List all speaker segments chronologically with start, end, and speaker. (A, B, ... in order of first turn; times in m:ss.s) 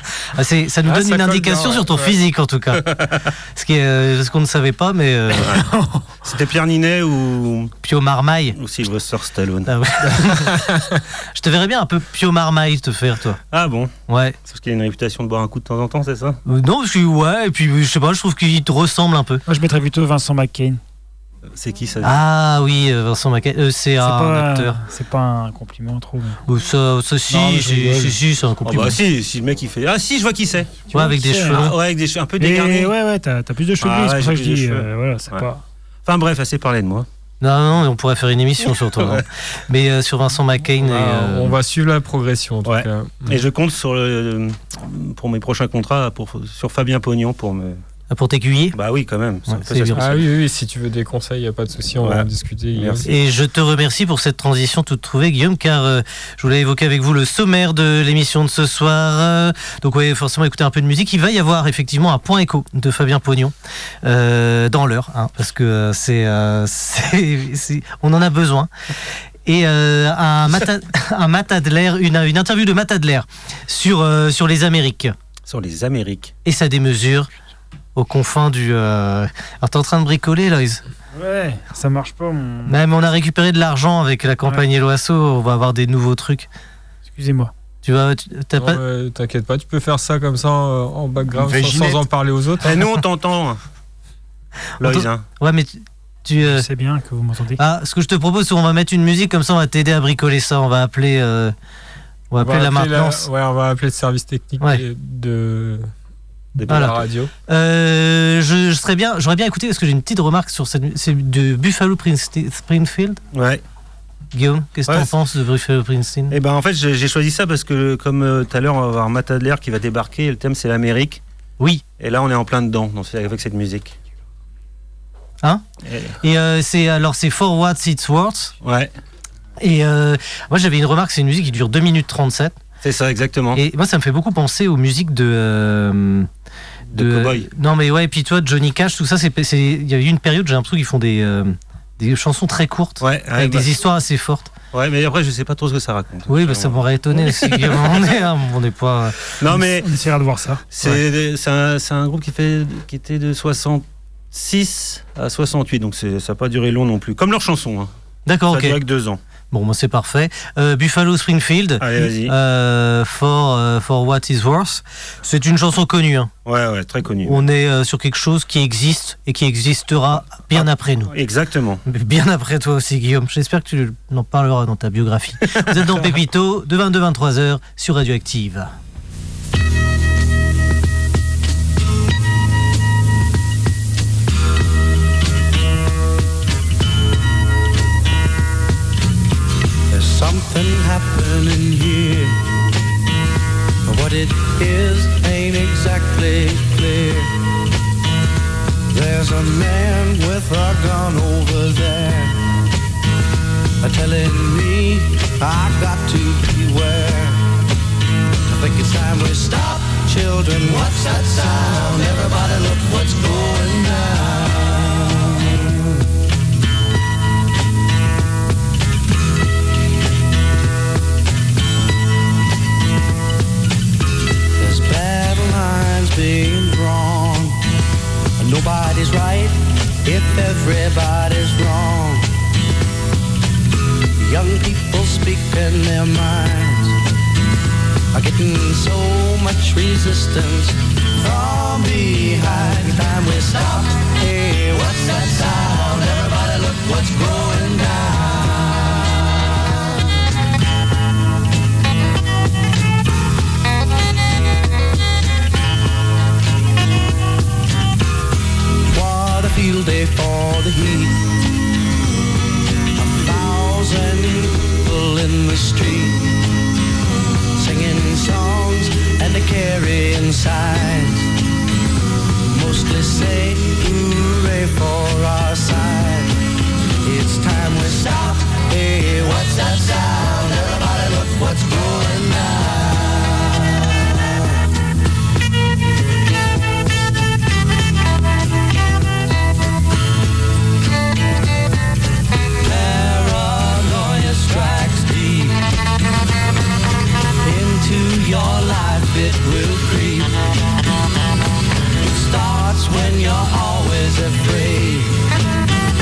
0:00.3-0:03.0 A
0:00.9-0:02.2 B
0:02.9-0:03.2 C
0:03.6-0:05.6 A
0:05.4-0:05.6 C
0:05.6-0:06.0 D
0:06.2-0:07.7 C
0:07.8-0:08.6 A
0:08.6-0:09.7 C
0:09.7-0:10.7 A
0:10.2-0:11.0 B
0:11.3-0:13.4 A
0:13.5-0:13.9 C
0:14.1-0:14.4 A
0:14.5-0:16.4 C
0:16.4-0:19.4 A
0:19.5-0:20.8 D
0:21.5-0:22.2 C
0:22.0-0:24.8 A
0:24.0-0:26.4 D
0:26.4-0:29.0 A
0:27.3-0:28.1 D
0:28.7-0:30.9 C
0:30.9-0:31.8 A
0:30.9-0:31.6 D
0:31.5-0:32.9 C
0:32.4-0:35.6 D
0:33.8-0:35.4 C
0:36.1-0:37.1 C
0:37.4-0:41.6 A
0:39.0-0:39.2 C
0:40.8-0:43.4 B
0:42.7-0:47.8 C
0:48.1-0:48.8 A
0:48.7-0:50.2 C
0:49.5-0:50.2 A
0:50.0-0:53.1 B
0:52.0-0:53.1 C
0:53.1-1:08.7 A
1:09.4-1:15.2 A
1:15.5-1:16.3 C
1:16.4-1:17.3 A
1:17.9-1:20.8 A
1:21.2-1:22.8 D
1:22.7-1:26.5 A
1:27.1-1:27.5 D
1:27.8-1:28.8 A
1:28.6-1:32.8 B
1:31.3-1:32.0 D
1:32.6-1:33.6 C
1:34.8-1:36.7 A
1:34.8-1:35.2 C
1:36.4-1:37.6 D
1:37.6-1:41.6 A
1:42.3-1:43.3 A
1:42.4-1:45.9 B
1:46.6-1:47.0 C
1:46.7-1:47.3 B
1:46.7-1:53.2 A
1:53.3-1:53.6 C
1:54.3-1:56.4 A
1:56.3-2:01.2 C
2:01.6-2:01.8 A
2:02.0-2:03.9 C
2:05.8-2:06.2 C
2:06.2-2:08.5 A
2:08.6-2:08.9 C
2:09.6-2:12.6 A
2:12.8-2:13.6 C
2:13.5-2:16.3 A
2:16.9-2:17.5 C
2:16.9-2:24.5 A
2:23.0-2:23.7 C
2:24.7-2:28.2 C
2:26.3-2:29.2 A
2:29.4-2:29.9 C
2:29.6-2:30.6 D
2:30.7-2:37.9 C
2:38.3-2:38.8 A
2:38.5-2:39.2 C
2:39.5-2:46.3 A
2:41.8-2:42.3 C
2:46.4-2:47.4 C
2:47.2-2:51.1 A
2:50.5-2:51.8 C
2:51.8-2:58.7 A
2:55.5-2:56.1 C
3:09.9-3:12.5 E
3:13.8-3:17.4 E
3:18.9-3:22.4 E
3:23.8-3:27.5 E
3:28.5-3:36.0 E
3:44.5-3:47.7 E
3:48.4-3:52.3 E
3:54.2-3:57.0 E
3:58.1-4:09.1 E
4:18.8-4:21.3 E
4:23.0-4:26.4 E
4:27.6-4:31.3 E
4:32.5-4:36.4 E
4:37.0-4:43.7 E
4:52.6-4:55.7 E
4:57.4-5:00.4 E
5:02.0-5:05.3 E